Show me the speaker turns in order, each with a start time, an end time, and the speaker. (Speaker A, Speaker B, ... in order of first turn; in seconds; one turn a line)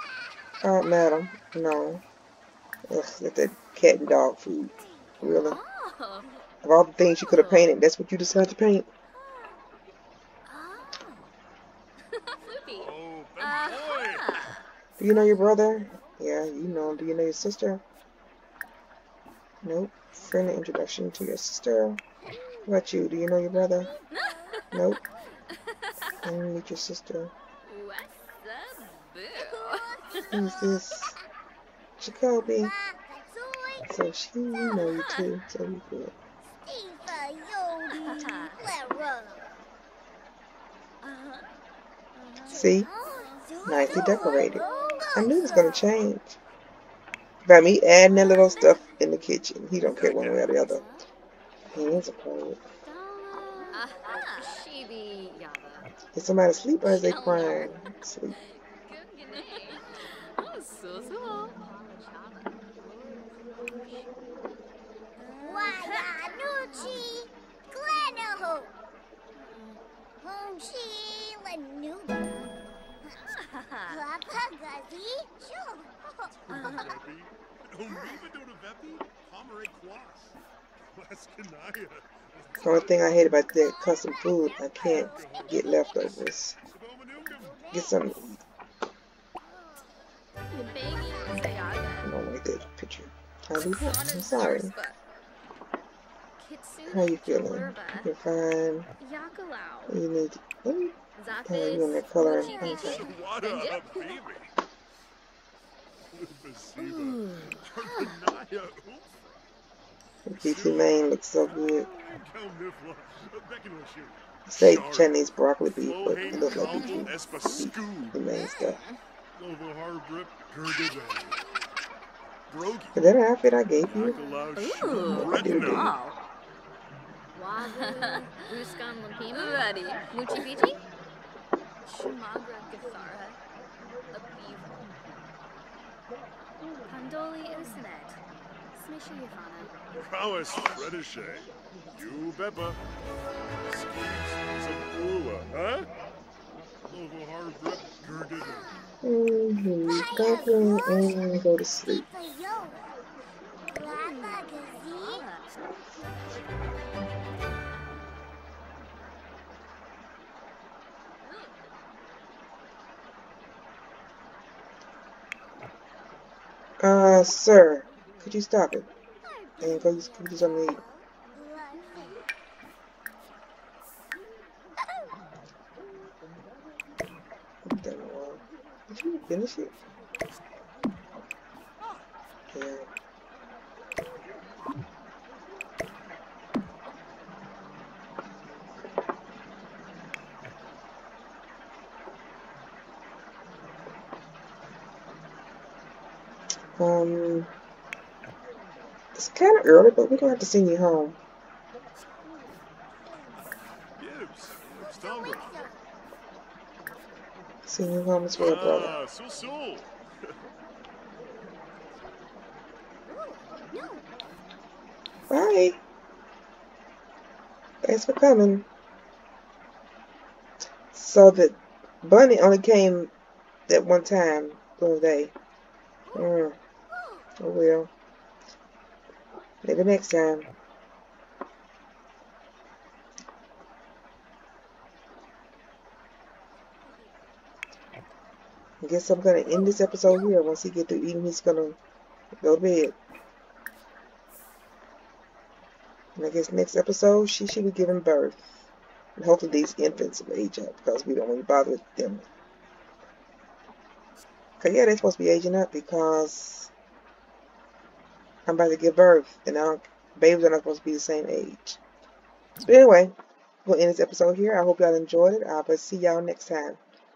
Speaker A: 0.6-2.0
Speaker A: 2.9-5.6
Speaker B: 5.4-6.3
Speaker A: 6.6-8.9
Speaker B: 7.2-7.8
Speaker B: 10.5-11.2
Speaker B: 12.1-14.6
Speaker C: 12.7-14.5
Speaker A: 15.0-17.8
Speaker A: 19.6-22.0
Speaker A: 22.6-23.9
Speaker D: 23.9-24.6
Speaker B: 24.1-24.8
Speaker A: 24.7-25.0
Speaker B: 25.8-26.1
Speaker A: 26.2-27.3
Speaker B: 27.6-30.4
Speaker D: 29.3-31.0
Speaker A: 30.3-31.2
Speaker A: 32.0-32.7
Speaker D: 32.5-33.9
Speaker A: 33.9-36.1
Speaker B: 34.6-35.3
Speaker D: 36.6-39.5
Speaker B: 37.9-38.6
Speaker B: 41.0-41.5
Speaker B: 42.1-43.5
Speaker A: 42.5-42.9
Speaker D: 42.5-45.9
Speaker A: 43.6-46.4
Speaker B: 44.1-45.1
Speaker A: 47.5-50.8
Speaker D: 48.3-48.8
Speaker B: 48.5-48.8
Speaker C: 49.9-50.5
Speaker B: 50.3-51.0
Speaker A: 51.7-52.6
Speaker B: 52.9-55.9
Speaker A: 56.1-58.4
Speaker B: 56.8-57.8
Speaker B: 58.8-64.0
Speaker B: 65.2-67.1
Speaker D: 65.4-68.7
Speaker B: 69.4-69.8
Speaker D: 70.2-72.5
Speaker B: 73.3-74.0
Speaker D: 73.9-76.8
Speaker C: 76.5-80.3
Speaker B: 76.5-76.9
Speaker C: 80.9-83.2
Speaker A: 82.6-86.6
Speaker D: 84.0-86.2
Speaker C: 84.9-86.0
Speaker C: 86.7-87.7
Speaker D: 87.4-88.1
Speaker A: 87.7-88.4
Speaker D: 89.4-90.0
Speaker B: 90.5-92.1
Speaker A: 92.0-94.7
Speaker B: 93.5-95.0
Speaker B: 96.4-98.1
Speaker A: 96.9-98.9
Speaker B: 99.0-100.0
Speaker A: 99.9-101.0
Speaker B: 101.2-104.2
Speaker A: 101.5-103.0
Speaker C: 102.3-104.5
Speaker C: 106.1-109.3
Speaker B: 106.8-108.1
Speaker A: 110.2-111.9
Speaker C: 110.4-118.2
Speaker A: 114.5-118.8
Speaker B: 116.4-117.6
Speaker B: 118.3-119.0
Speaker C: 119.3-121.5
Speaker C: 122.5-123.0
Speaker A: 123.0-124.2
Speaker C: 123.8-126.0
Speaker B: 124.5-126.2
Speaker A: 125.1-126.0
Speaker B: 127.3-130.8
Speaker B: 131.8-133.4
Speaker B: 134.1-134.7
Speaker B: 136.8-138.2
Speaker B: 138.7-139.8
Speaker C: 140.0-142.8
Speaker C: 143.6-145.9
Speaker C: 146.9-148.9
Speaker D: 148.4-148.9
Speaker A: 149.0-152.1
Speaker D: 149.8-153.0
Speaker D: 153.7-155.3
Speaker B: 153.8-155.4
Speaker A: 166.8-168.9
Speaker D: 169.2-172.3
Speaker A: 169.6-170.8
Speaker A: 177.7-179.7
Speaker A: 182.5-182.9
Speaker A: 196.8-197.5
Speaker A: 199.2-201.2
Speaker C: 204.0-205.6
Speaker D: 204.8-205.9
Speaker A: 207.7-208.9
Speaker C: 208.4-210.3
Speaker D: 213.1-214.0
Speaker A: 215.3-215.8
Speaker A: 217.8-218.7
Speaker A: 220.9-223.1
Speaker A: 223.7-225.3
Speaker A: 226.1-226.6
Speaker A: 227.4-227.9
Speaker A: 229.6-230.5
Speaker A: 238.8-241.8
Speaker A: 242.4-243.0
Speaker A: 246.2-248.7
Speaker A: 249.2-252.3
Speaker A: 254.6-256.7
Speaker A: 258.5-261.8
Speaker A: 262.6-263.1
Speaker A: 263.6-266.8